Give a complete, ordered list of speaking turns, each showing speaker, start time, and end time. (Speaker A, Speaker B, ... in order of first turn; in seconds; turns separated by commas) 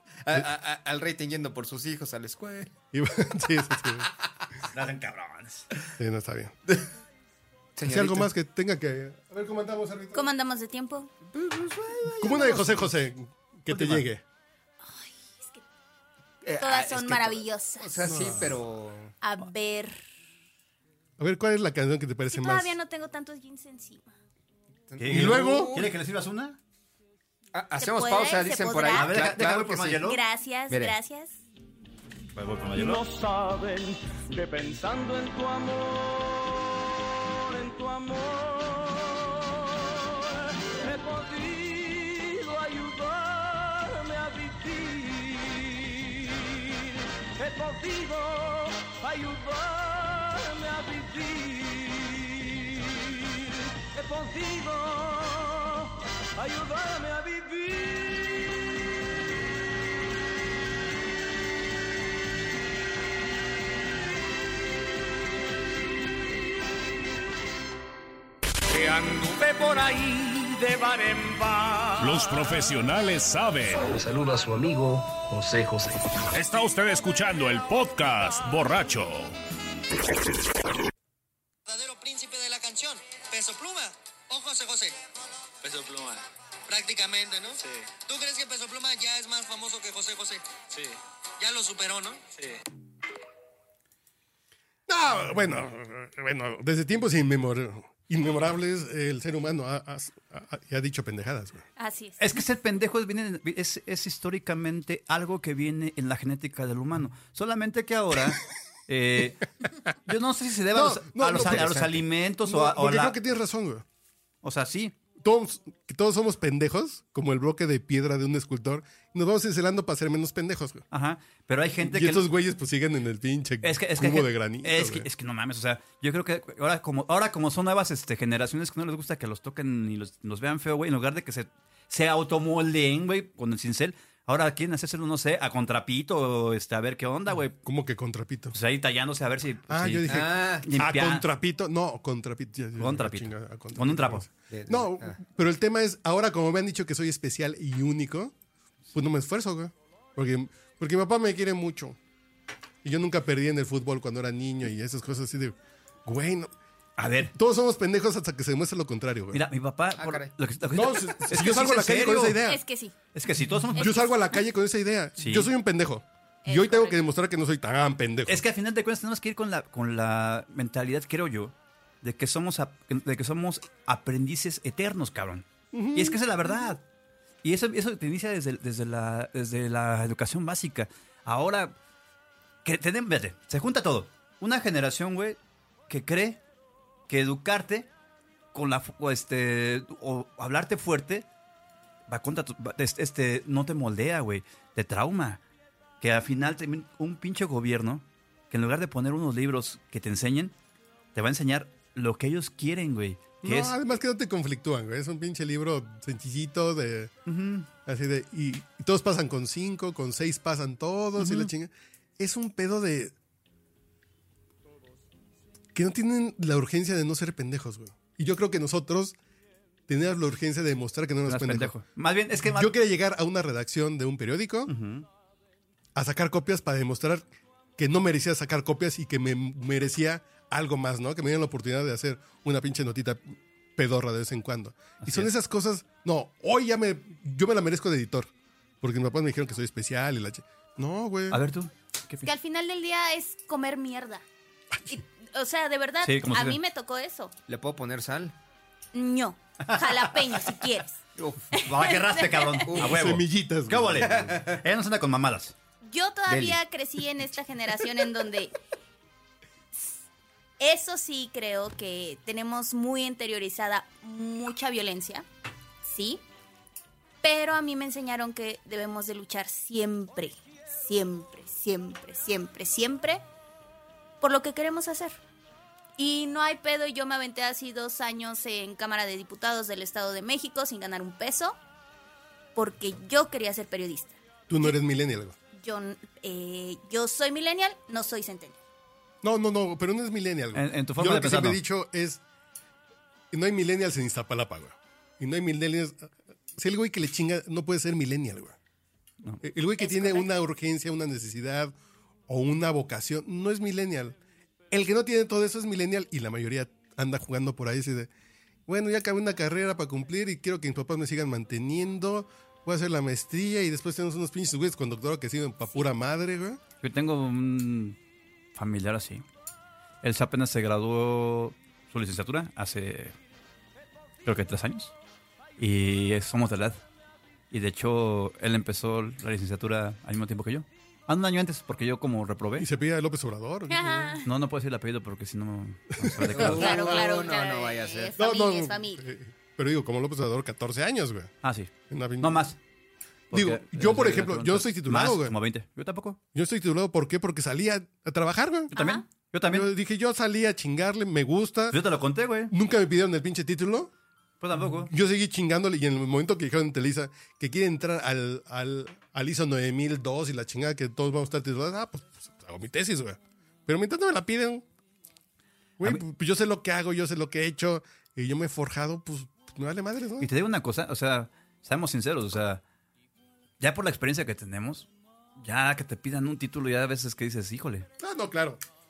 Speaker A: 0.2-2.7, Speaker B: 2.9-4.1, Speaker C: 4.7-5.7, Speaker B: 6.0-6.5, Speaker A: 7.8-8.3, Speaker B: 7.8-10.2, Speaker D: 10.1-11.1, Speaker A: 11.3-12.9, Speaker B: 12.2-14.2, Speaker C: 13.7-14.0, Speaker D: 14.8-15.6, Speaker A: 16.4-19.1, Speaker D: 16.6-18.1, Speaker B: 18.0-18.6, Speaker D: 19.2-20.0, Speaker B: 21.2-22.8, Speaker D: 22.3-24.1, Speaker A: 24.9-25.9, Speaker C: 25.0-26.6, Speaker B: 25.1-25.8, Speaker A: 27.5-30.1, Speaker D: 27.8-29.3, Speaker C: 28.9-30.2, Speaker D: 30.0-31.4, Speaker A: 30.7-31.0, Speaker C: 32.4-33.0, Speaker E: 32.7-58.5, Speaker E: 68.7-72.4, Speaker F: 72.0-73.8, Speaker G: 73.8-76.4, Speaker F: 76.3-79.4, Speaker H: 81.7-85.0, Speaker H: 85.6-92.6, Speaker B: 94.9-101.7, Speaker D: 101.8-102.2, Speaker C: 102.2-109.5, Speaker C: 110.0-113.2, Speaker B: 110.7-113.8, Speaker A: 111.4-111.8, Speaker C: 114.4-115.0, Speaker B: 115.2-120.8, Speaker C: 120.9-122.2, Speaker B: 121.8-125.1, Speaker C: 123.6-137.6, Speaker B: 137.6-138.6, Speaker C: 138.5-141.3, Speaker B: 139.7-148.3, Speaker A: 140.1-140.7, Speaker C: 142.8-144.3, Speaker A: 144.5-145.2, Speaker B: 148.9-152.0, Speaker B: 152.8-156.5, Speaker C: 157.0-157.3, Speaker B: 157.3-159.4, Speaker C: 159.3-162.4, Speaker A: 160.0-160.3, Speaker B: 160.7-162.6, Speaker D: 162.5-162.9, Speaker C: 163.1-164.0, Speaker D: 163.8-164.4, Speaker B: 163.8-168.4, Speaker C: 165.2-165.5, Speaker D: 166.4-167.0, Speaker C: 168.3-176.8, Speaker B: 175.7-176.2, Speaker C: 177.4-181.8, Speaker C: 182.7-185.4, Speaker C: 185.9-186.4, Speaker C: 187.1-187.9, Speaker C: 188.5-191.3, Speaker C: 192.1-195.4, Speaker C: 196.0-200.5, Speaker C: 201.2-203.8, Speaker B: 203.4-207.1, Speaker C: 207.3-207.7, Speaker B: 207.8-213.1, Speaker C: 211.2-211.5, Speaker B: 215.8-219.2, Speaker B: 219.9-221.7, Speaker C: 221.3-222.7, Speaker B: 222.4-224.7, Speaker C: 224.7-225.1, Speaker B: 225.9-227.2, Speaker B: 227.8-238.3, Speaker C: 235.0-235.3, Speaker B: 238.8-241.4, Speaker C: 241.3-242.3, Speaker D: 242.2-244.2, Speaker D: 244.9-247.3, Speaker C: 246.0-246.6, Speaker A: 247.5-248.3, Speaker D: 248.9-251.0, Speaker C: 249.6-250.4, Speaker A: 251.2-251.4, Speaker C: 251.5-255.5, Speaker D: 251.5-252.7, Speaker A: 252.7-253.0, Speaker B: 252.8-254.2, Speaker A: 254.0-254.6, Speaker D: 255.8-258.6, Speaker C: 256.3-256.6, Speaker D: 260.6-265.2, Speaker D: 265.8-266.2, Speaker D: 267.2-273.2, Speaker D: 274.2-275.2, Speaker D: 276.0-281.6, Speaker D: 282.6-284.7, Speaker B: 284.5-285.4, Speaker D: 285.6-288.6, Speaker B: 289.2-292.2, Speaker C: 290.5-291.6, Speaker B: 293.3-298.6, Speaker B: 299.4-301.8, Speaker D: 299.8-300.3, Speaker B: 302.3-304.2, Speaker B: 304.7-308.1, Speaker B: 308.7-316.6, Speaker C: 316.8-318.0, Speaker C: 318.6-319.2, Speaker C: 320.0-323.1, Speaker C: 324.2-324.9, Speaker C: 325.6-326.8, Speaker C: 327.5-332.7, Speaker B: 332.6-334.2, Speaker D: 333.7-334.3, Speaker C: 334.2-337.0, Speaker B: 336.0-336.6, Speaker A: 336.3-338.1, Speaker D: 336.5-339.0, Speaker B: 338.2-341.3, Speaker C: 341.4-342.6, Speaker B: 341.9-342.4, Speaker C: 343.3-346.2, Speaker B: 343.3-345.4, Speaker B: 346.3-348.7, Speaker C: 348.7-349.7, Speaker D: 348.8-349.1, Speaker B: 349.4-351.8, Speaker C: 351.7-352.5, Speaker B: 352.5-353.9, Speaker C: 354.4-354.9, Speaker B: 354.6-364.6, Speaker B: 365.8-370.3, Speaker C: 370.2-372.6, Speaker C: 373.6-377.9, Speaker B: 378.0-378.6